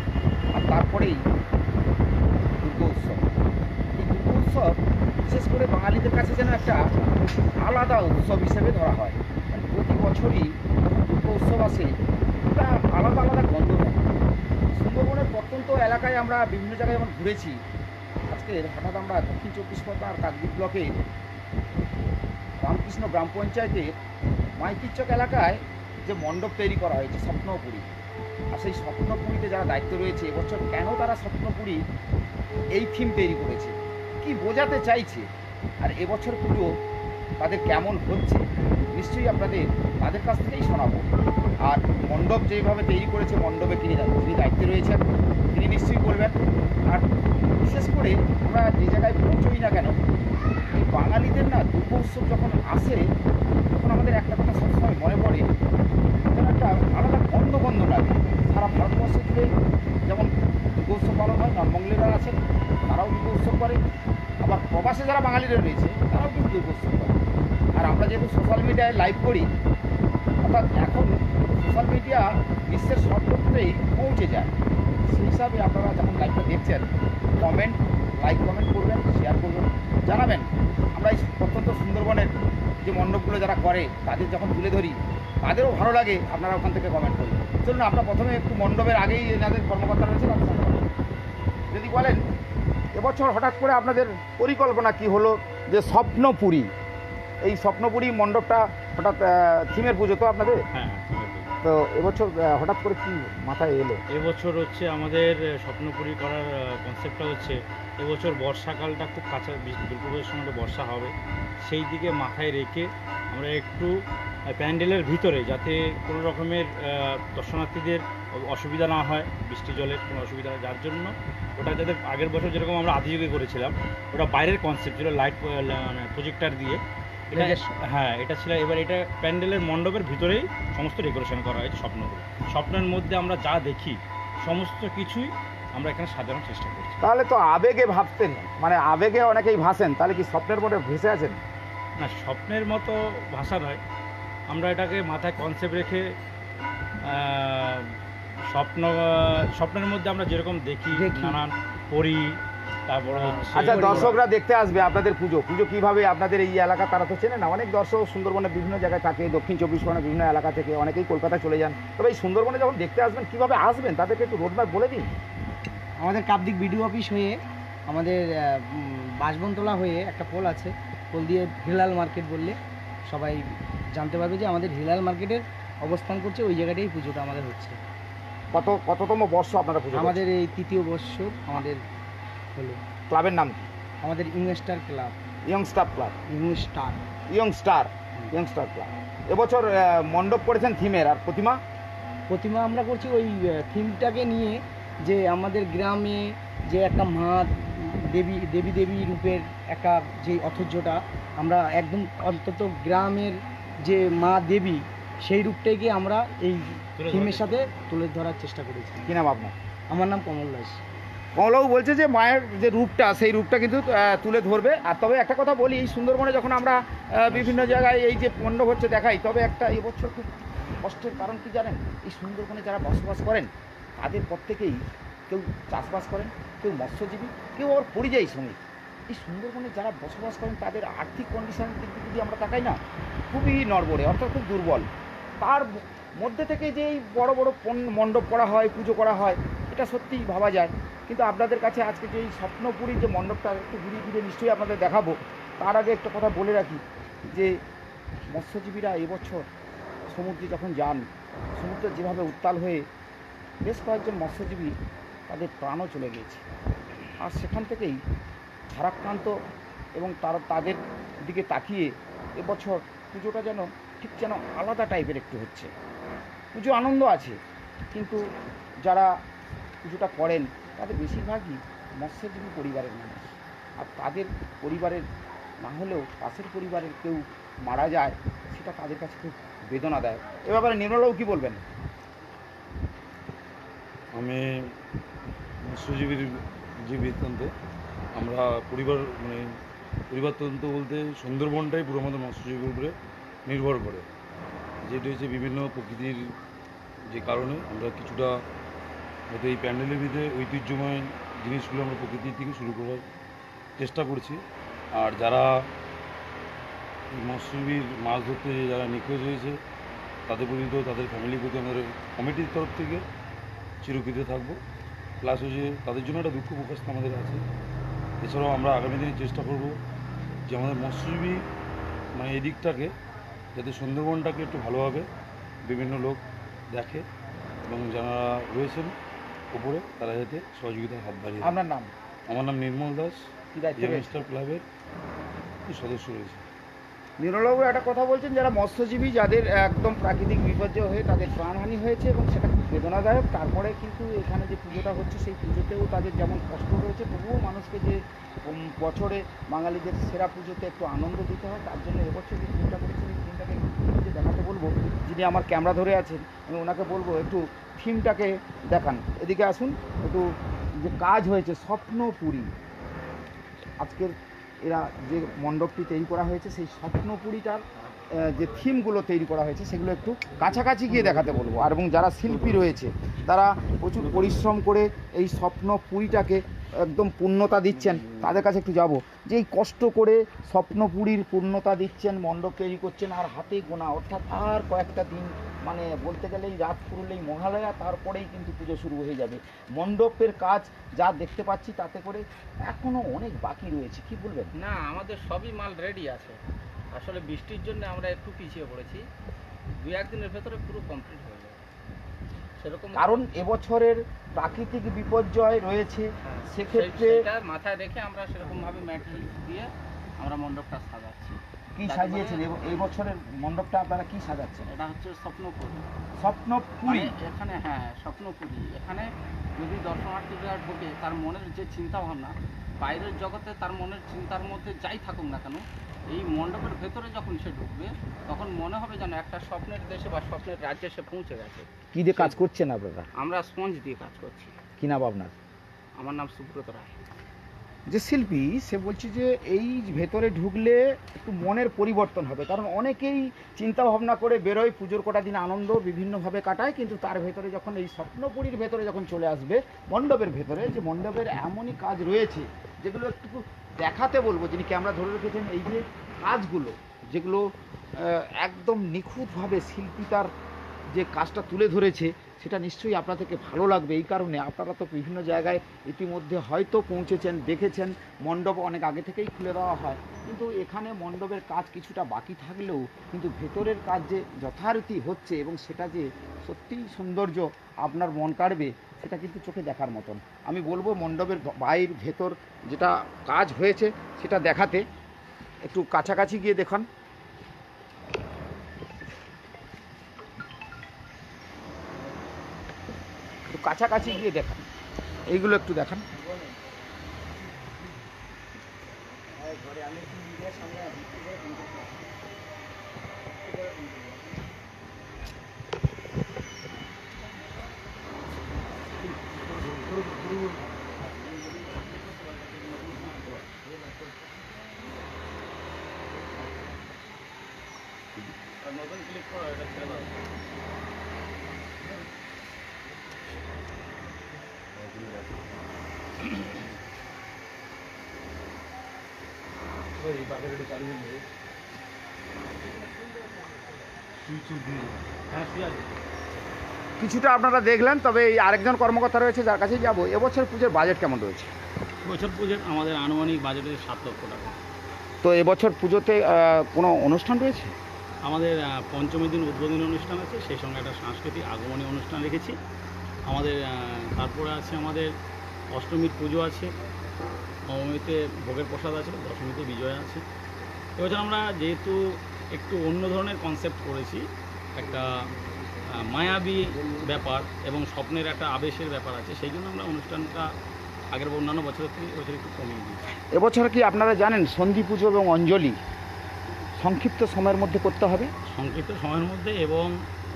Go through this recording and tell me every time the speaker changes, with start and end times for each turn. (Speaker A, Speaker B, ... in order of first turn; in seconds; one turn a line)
Speaker A: 0.5-1.2
Speaker A: 2.6-3.2
Speaker A: 4.0-6.9
Speaker A: 7.6-14.1
Speaker A: 14.7-17.6
Speaker A: 18.3-20.9
Speaker A: 22.6-23.9
Speaker A: 24.6-27.9
Speaker A: 28.5-31.8
Speaker A: 32.7-35.3
Speaker A: 35.8-36.7
Speaker A: 37.4-41.1
Speaker A: 41.6-45.0
Speaker A: 45.5-46.4
Speaker A: 47.6-50.0
Speaker A: 50.7-53.0
Speaker A: 53.7-55.5
Speaker A: 56.3-59.5
Speaker A: 60.1-62.4
Speaker A: 62.9-63.8
Speaker A: 64.4-67.2
Speaker A: 67.8-69.5
Speaker A: 70.4-74.5
Speaker A: 75.1-82.3
Speaker A: 82.8-90.8
Speaker A: 91.7-92.2
Speaker A: 92.9-96.7
Speaker A: 97.4-100.6
Speaker B: 100.7-101.5
Speaker A: 101.6-104.0
Speaker B: 104.1-111.1
Speaker B: 111.6-113.9
Speaker B: 114.5-126.8
Speaker B: 127.3-137.0
Speaker A: 137.0-141.4
Speaker B: 142.0-143.8
Speaker B: 144.5-146.1
Speaker B: 147.0-147.9
Speaker B: 148.5-154.2
Speaker C: 150.9-151.4
Speaker C: 153.1-154.1
Speaker A: 153.5-165.1
Speaker C: 166.0-167.4
Speaker C: 167.9-177.8
Speaker A: 178.5-180.2
Speaker C: 179.9-181.8
Speaker C: 182.5-182.8
Speaker A: 183.1-183.7
Speaker C: 184.0-185.2
Speaker A: 185.5-186.1
Speaker C: 186.3-187.0
Speaker A: 187.3-191.6
Speaker C: 192.3-209.1
Speaker B: 207.0-207.7
Speaker A: 209.0-209.5
Speaker C: 209.9-210.8
Speaker A: 211.3-220.3
Speaker C: 217.3-217.9
Speaker A: 220.8-232.8
Speaker A: 233.3-234.9
Speaker A: 235.4-247.5
Speaker A: 248.3-249.5
Speaker A: 250.1-251.0
Speaker A: 251.6-252.8
Speaker A: 253.6-254.7
Speaker A: 255.3-256.4
Speaker A: 257.2-258.0
Speaker A: 258.7-259.3
Speaker A: 260.0-265.7
Speaker A: 266.5-267.4
Speaker A: 267.9-268.2
Speaker A: 268.8-269.1
Speaker A: 269.8-275.0
Speaker A: 275.6-281.7
Speaker D: 284.1-284.7
Speaker D: 285.6-287.5
Speaker D: 288.1-289.4
Speaker D: 290.1-292.9
Speaker D: 293.5-294.1
Speaker D: 294.8-296.3
Speaker D: 297.1-298.3
Speaker D: 299.3-303.0
Speaker D: 303.8-304.4
Speaker D: 304.9-305.4
Speaker D: 307.1-309.6
Speaker D: 310.3-313.0
Speaker D: 313.8-314.6
Speaker D: 315.2-317.4
Speaker D: 318.2-319.8
Speaker D: 320.5-321.4
Speaker D: 322.1-322.9
Speaker D: 323.5-325.1
Speaker D: 325.6-327.0
Speaker D: 327.7-328.9
Speaker D: 329.5-331.5
Speaker A: 331.4-331.9
Speaker D: 332.3-334.6
Speaker A: 333.5-334.1
Speaker D: 335.7-336.4
Speaker A: 337.2-362.5
Speaker A: 363.8-394.5
Speaker E: 394.6-396.3
Speaker B: 394.7-396.0
Speaker E: 396.9-399.0
Speaker B: 397.2-398.8
Speaker E: 399.8-401.6
Speaker B: 401.1-401.4
Speaker E: 402.6-403.2
Speaker A: 402.9-407.3
Speaker E: 406.4-409.7
Speaker B: 408.4-409.4
Speaker E: 410.2-412.4
Speaker A: 411.7-414.7
Speaker E: 414.7-415.8
Speaker A: 416.2-417.1
Speaker E: 416.9-431.7
Speaker A: 431.9-433.1
Speaker E: 433.2-434.5
Speaker A: 434.8-435.3
Speaker E: 436.0-436.9
Speaker A: 437.9-457.4
Speaker A: 458.0-460.3
Speaker A: 460.9-484.8
Speaker A: 485.6-486.9
Speaker A: 493.5-494.6
Speaker A: 495.3-496.0
Speaker C: 496.1-496.6
Speaker C: 499.4-502.1
Speaker C: 503.4-504.4
Speaker B: 509.6-510.4
Speaker B: 511.0-514.1
Speaker B: 518.6-520.2
Speaker D: 524.7-525.4
Speaker D: 530.0-531.2
Speaker B: 534.4-535.9
Speaker A: 537.0-541.5
Speaker B: 542.0-544.5
Speaker A: 545.2-547.7
Speaker B: 548.2-552.6
Speaker B: 553.3-555.1
Speaker B: 555.7-556.7
Speaker B: 557.7-560.2
Speaker B: 561.0-565.3
Speaker B: 565.9-570.5
Speaker B: 571.1-573.0
Speaker A: 573.3-575.8
Speaker A: 576.8-578.3
Speaker B: 578.5-579.9